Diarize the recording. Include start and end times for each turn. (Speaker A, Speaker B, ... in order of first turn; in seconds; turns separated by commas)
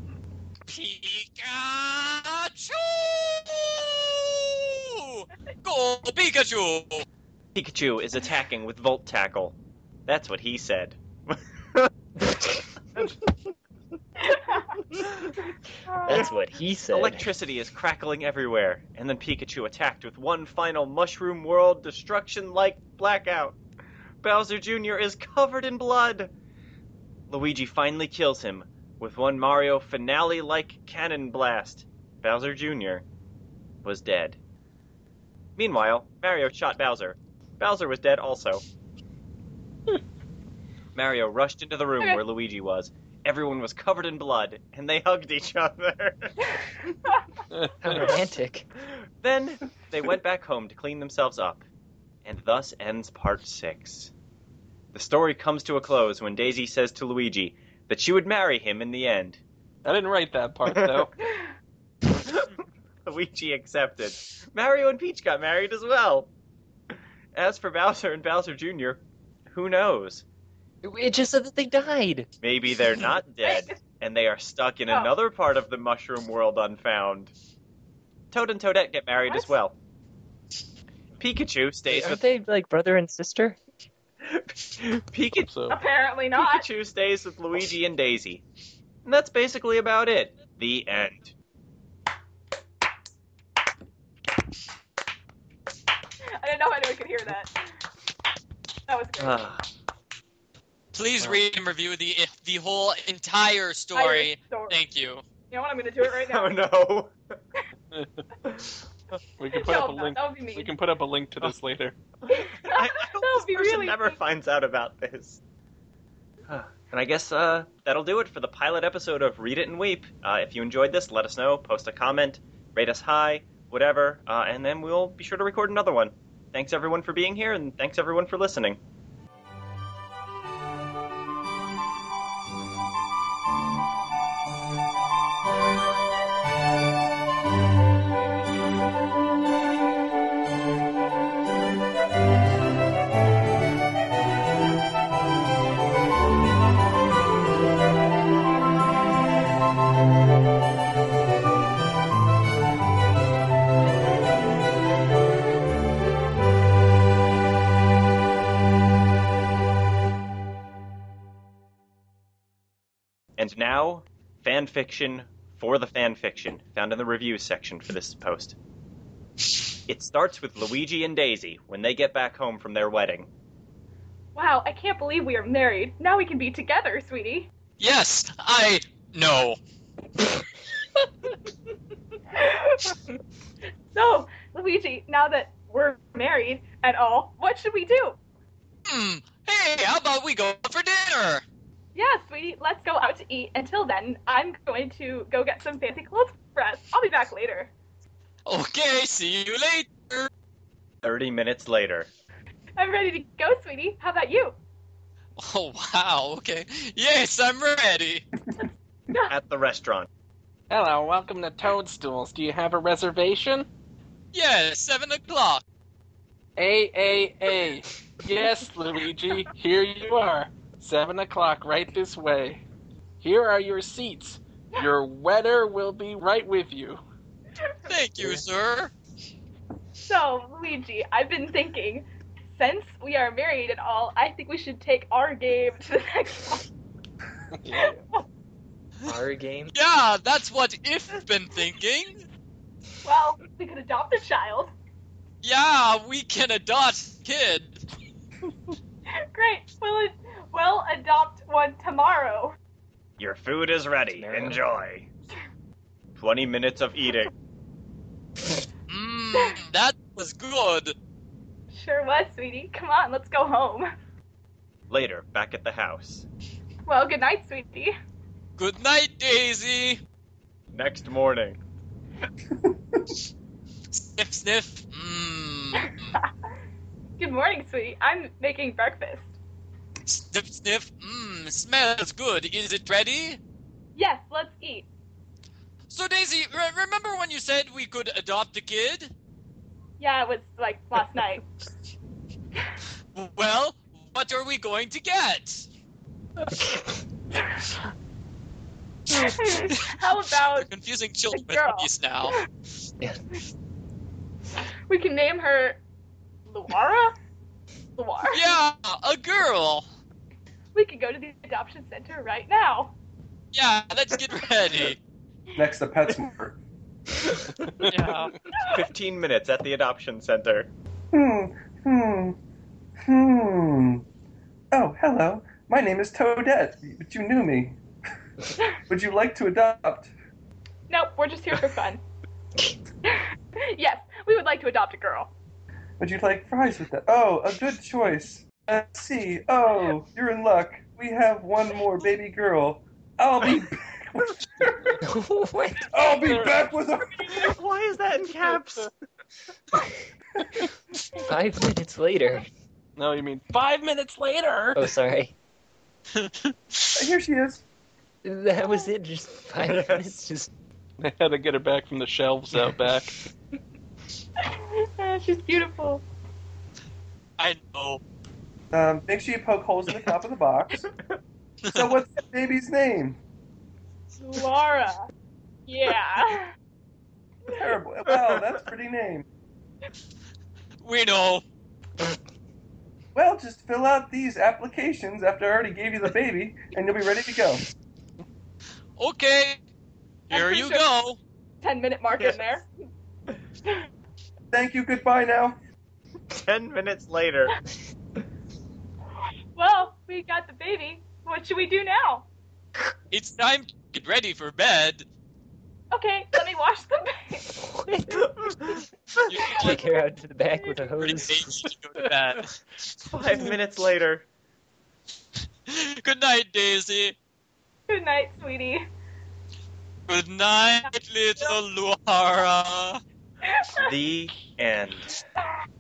Speaker A: 0.7-7.0, Speaker B: 7.5-9.6, Speaker B: 10.1-11.9, Speaker C: 14.2-14.8, Speaker C: 15.9-16.4, Speaker D: 16.1-17.3, Speaker B: 16.1-23.6, Speaker B: 24.2-26.3, Speaker B: 27.3-33.0, Speaker B: 33.8-34.4, Speaker B: 35.6-38.6, Speaker B: 41.0-46.3, Speaker C: 47.1-47.4, Speaker E: 47.5-48.0, Speaker D: 47.8-48.7, Speaker B: 49.2-51.6, Speaker B: 52.2-54.1, Speaker B: 54.9-59.4, Speaker E: 59.8-61.1, Speaker B: 60.7-61.0, Speaker B: 62.1-62.5, Speaker B: 63.1-66.3, Speaker B: 67.3-70.2, Speaker D: 70.8-72.3, Speaker B: 72.4-77.3, Speaker C: 73.4-73.8, Speaker C: 74.9-75.1, Speaker B: 78.3-79.8, Speaker C: 79.3-79.5, Speaker B: 81.2-82.2, Speaker D: 81.9-83.6, Speaker B: 84.2-85.5, Speaker E: 85.5-85.8, Speaker C: 85.7-86.7, Speaker B: 86.3-88.4, Speaker B: 89.0-91.3, Speaker C: 96.3-97.5, Speaker C: 98.9-99.5, Speaker B: 99.2-99.7, Speaker A: 100.9-105.2, Speaker C: 103.9-104.8, Speaker C: 105.5-106.6, Speaker B: 106.0-107.1, Speaker E: 107.9-108.2, Speaker B: 108.5-109.2, Speaker E: 109.4-112.0, Speaker C: 109.6-110.8, Speaker B: 112.2-115.4, Speaker C: 112.3-114.2, Speaker B: 116.5-128.8, Speaker B: 163.4-168.6, Speaker B: 169.9-173.3, Speaker C: 174.4-177.5, Speaker A: 177.8-179.6, Speaker C: 182.3-183.0, Speaker C: 183.9-188.2, Speaker A: 188.9-191.4, Speaker C: 191.9-197.7, Speaker A: 198.5-200.3, Speaker B: 201.0-202.1, Speaker C: 202.8-204.6, Speaker A: 205.4-208.3, Speaker C: 208.6-209.3, Speaker B: 209.3-210.1, Speaker E: 210.7-213.7, Speaker A: 214.3-215.6, Speaker E: 216.6-222.6, Speaker E: 223.2-227.0, Speaker A: 227.9-228.9, Speaker C: 230.1-232.1, Speaker C: 232.6-236.7, Speaker E: 237.6-238.0, Speaker C: 237.7-238.2, Speaker D: 239.1-239.8, Speaker A: 239.7-242.3, Speaker C: 243.0-244.7, Speaker A: 245.4-247.8, Speaker C: 249.2-252.6, Speaker B: 253.2-255.1, Speaker D: 254.2-254.6, Speaker B: 256.2-257.3, Speaker A: 258.9-260.9, Speaker C: 261.7-263.9, Speaker B: 264.9-266.3, Speaker C: 266.9-267.9, Speaker A: 268.6-270.0, Speaker B: 270.7-271.6, Speaker A: 273.9-276.2, Speaker C: 275.8-276.3, Speaker C: 277.2-279.3, Speaker A: 280.1-283.4, Speaker C: 283.9-284.9, Speaker A: 285.9-289.1, Speaker C: 290.0-291.4, Speaker A: 293.1-295.7, Speaker C: 299.1-300.7, Speaker A: 299.1-299.9, Speaker A: 300.5-302.4, Speaker C: 301.3-302.4, Speaker C: 304.9-305.8, Speaker C: 306.5-307.1, Speaker C: 308.0-308.4, Speaker A: 308.3-309.9, Speaker C: 310.7-312.9, Speaker A: 313.5-315.0, Speaker F: 315.6-316.6, Speaker E: 317.6-318.3, Speaker A: 317.8-318.3, Speaker B: 318.7-320.7, Speaker F: 321.1-322.4, Speaker F: 323.0-324.1, Speaker F: 324.7-327.8, Speaker F: 328.9-330.1, Speaker C: 330.9-332.0, Speaker C: 333.0-335.3, Speaker F: 336.0-345.0, Speaker D: 345.0-346.4, Speaker F: 345.9-347.5, Speaker E: 346.0-346.7, Speaker B: 347.2-348.9, Speaker D: 351.2-352.5, Speaker E: 353.0-354.9, Speaker D: 354.8-355.4, Speaker E: 356.2-356.5, Speaker F: 356.9-357.6, Speaker D: 358.2-360.5, Speaker B: 359.7-360.1, Speaker E: 361.0-363.1, Speaker C: 364.4-366.0, Speaker A: 367.4-368.0, Speaker F: 368.7-370.8, Speaker A: 371.6-371.9, Speaker F: 371.7-373.2, Speaker C: 374.2-375.1, Speaker C: 375.7-376.5, Speaker F: 377.5-379.3, Speaker B: 378.1-378.4, Speaker A: 380.8-381.4, Speaker F: 383.1-387.6, Speaker A: 389.0-389.6, Speaker A: 390.3-391.2, Speaker C: 390.3-390.9, Speaker C: 391.6-392.7, Speaker F: 394.5-395.6, Speaker B: 396.4-397.5, Speaker C: 399.6-402.3, Speaker A: 403.1-405.1, Speaker C: 405.9-407.5, Speaker D: 407.6-408.3, Speaker B: 408.2-409.3, Speaker A: 409.2-409.8, Speaker D: 409.5-411.7, Speaker A: 411.0-412.6, Speaker B: 413.1-414.3, Speaker A: 415.7-417.2, Speaker C: 417.9-418.9, Speaker A: 420.1-423.0, Speaker C: 423.4-423.9, Speaker B: 423.8-425.1